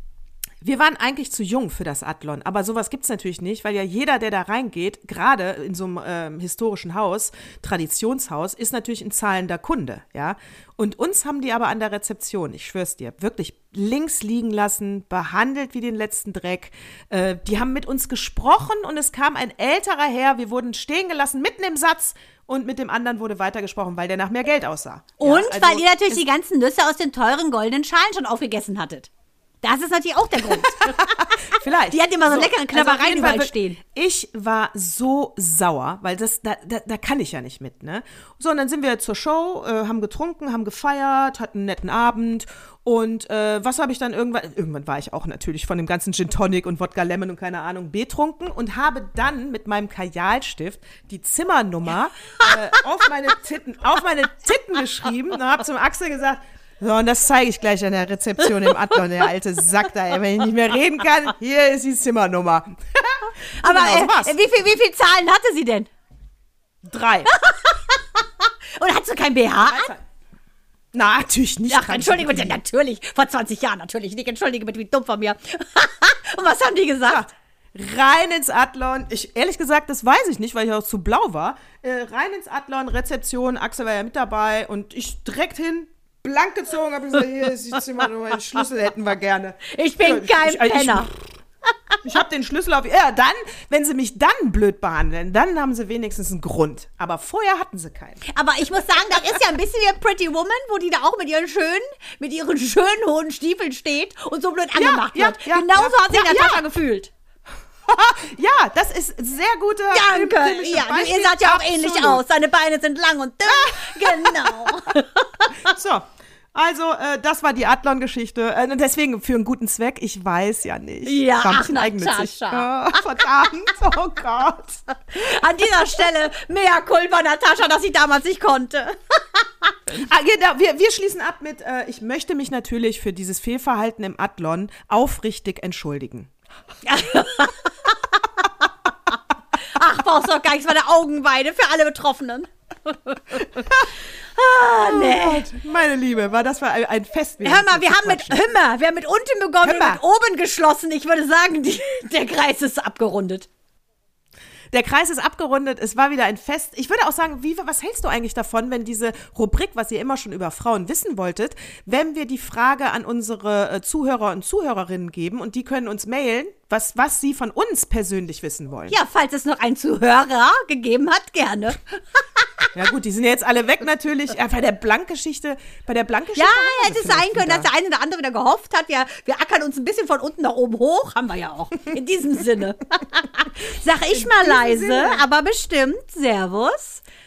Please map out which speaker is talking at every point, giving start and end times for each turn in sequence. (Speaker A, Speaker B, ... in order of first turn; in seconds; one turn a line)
Speaker A: 0.6-26.2
Speaker B: 25.2-29.1
Speaker B: 29.6-33.8
Speaker A: 30.5-64.3
Speaker B: 58.7-59.0
Speaker B: 63.6-65.9
Speaker A: 66.8-67.3
Speaker B: 67.3-69.9
Speaker A: 69.6-70.0
Speaker A: 70.9-72.6
Speaker B: 71.7-77.2
Speaker A: 77.1-91.1
Speaker B: 89.7-91.1
Speaker A: 92.0-98.2
Speaker B: 98.3-107.1
Speaker A: 104.8-106.6
Speaker A: 107.9-112.2
Speaker B: 109.9-115.6
Speaker A: 113.5-114.8
Speaker A: 115.5-124.8
Speaker B: 121.0-123.0
Speaker B: 125.1-129.8
Speaker A: 129.9-136.3
Speaker B: 136.9-138.7
Speaker B: 139.6-143.8
Speaker B: 144.4-145.5
Speaker A: 144.8-148.4
Speaker B: 147.4-153.5
Speaker A: 149.6-150.0
Speaker A: 154.7-168.9
Speaker B: 168.9-172.7
Speaker A: 172.8-177.7
Speaker B: 176.4-187.0
Speaker A: 184.0-185.2